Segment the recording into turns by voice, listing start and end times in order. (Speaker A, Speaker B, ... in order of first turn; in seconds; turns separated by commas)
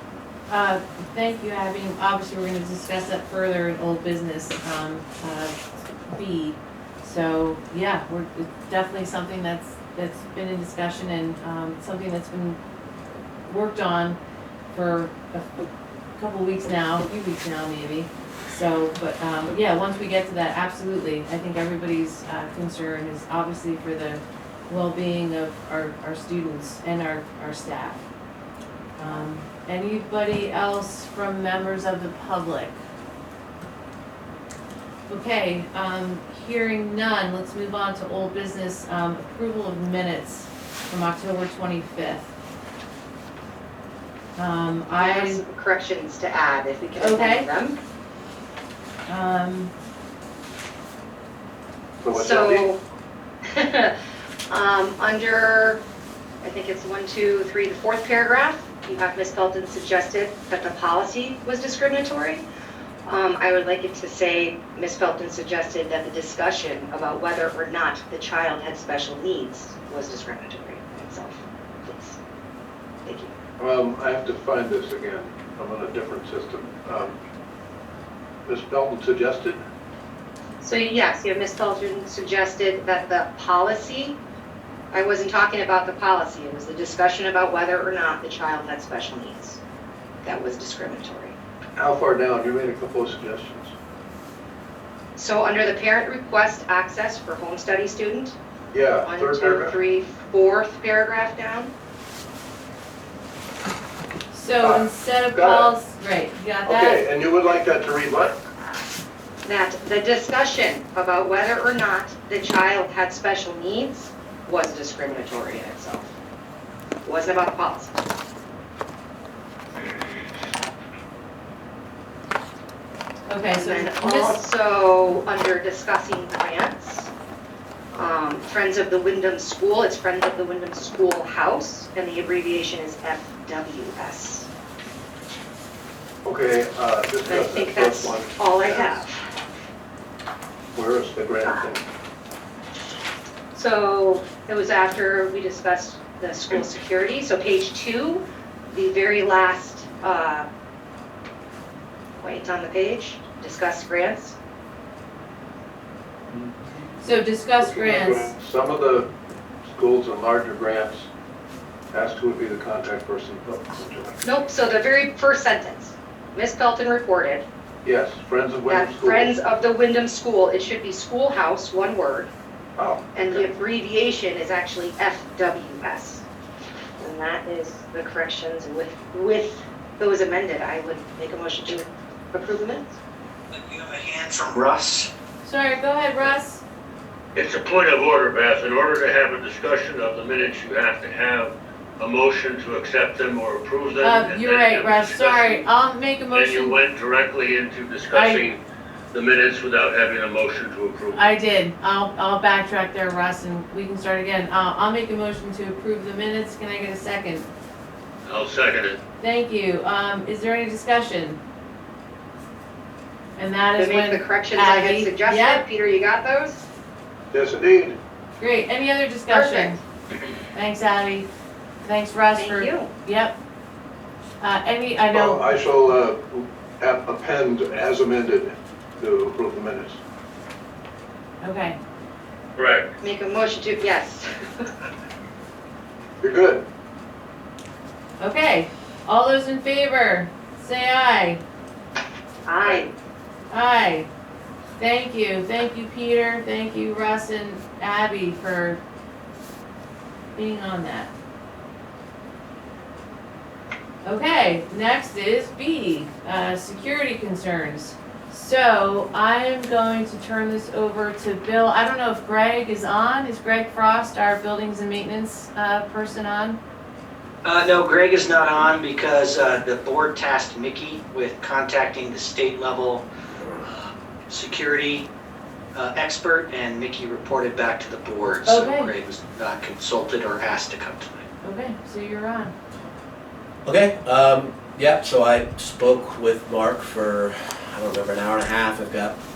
Speaker A: 0.5-5.6, Speaker A: 6.1-12.6, Speaker A: 13.4-14.2, Speaker A: 14.7-28.0, Speaker A: 29.0-32.8, Speaker A: 35.1-42.3, Speaker A: 44.4-45.4, Speaker B: 45.0-47.8, Speaker A: 47.0-47.5, Speaker A: 49.1-49.7, Speaker C: 52.0-52.7, Speaker B: 52.1-52.8, Speaker B: 53.5-53.9, Speaker B: 54.5-55.8, Speaker B: 56.4-62.4, Speaker B: 63.1-72.2, Speaker B: 73.0-73.3, Speaker C: 73.6-77.2, Speaker C: 78.5-79.6, Speaker B: 80.6-84.2, Speaker B: 84.9-89.6, Speaker B: 90.2-91.4, Speaker C: 91.8-93.7, Speaker B: 95.2-98.4, Speaker C: 98.7-99.8, Speaker B: 99.0-101.7, Speaker A: 104.3-107.0, Speaker C: 104.6-105.7, Speaker C: 106.7-108.4, Speaker B: 109.5-116.1, Speaker B: 117.0-118.0, Speaker A: 123.3-124.4, Speaker B: 123.5-127.1, Speaker B: 127.9-134.5, Speaker C: 136.2-139.0, Speaker B: 137.3-139.4, Speaker C: 140.8-141.8, Speaker B: 143.5-150.5, Speaker B: 152.2-154.3, Speaker C: 156.3-156.8, Speaker A: 157.0-158.3, Speaker C: 157.6-159.1, Speaker C: 159.7-161.1, Speaker C: 161.9-164.3, Speaker B: 164.2-167.4, Speaker C: 167.8-169.3, Speaker B: 168.7-172.3, Speaker C: 172.8-173.5, Speaker B: 173.2-176.2, Speaker B: 177.0-183.0, Speaker D: 183.5-185.1, Speaker A: 185.4-186.6, Speaker E: 187.3-195.7, Speaker A: 194.0-196.8, Speaker E: 196.3-198.6, Speaker A: 198.1-198.4, Speaker E: 199.1-201.2, Speaker A: 201.1-207.5, Speaker E: 208.3-209.0, Speaker A: 209.2-211.4, Speaker A: 213.4-215.6, Speaker B: 213.8-216.7, Speaker C: 217.3-218.0, Speaker A: 218.4-219.8, Speaker B: 219.3-219.8, Speaker A: 220.5-221.3, Speaker A: 221.8-223.3, Speaker B: 222.4-222.9, Speaker A: 224.4-225.4, Speaker C: 225.1-230.0, Speaker A: 231.4-231.8, Speaker E: 232.6-232.9, Speaker B: 233.0-234.7, Speaker C: 236.2-236.7, Speaker A: 238.2-241.4, Speaker B: 242.5-242.9, Speaker A: 243.5-244.1, Speaker A: 244.8-248.8, Speaker A: 250.3-251.1, Speaker A: 254.0-266.6, Speaker D: 267.4-273.1, Speaker D: 274.3-275.1, Speaker D: 275.7-281.2, Speaker A: 278.4-278.9, Speaker A: 281.4-282.5, Speaker F: 283.6-289.2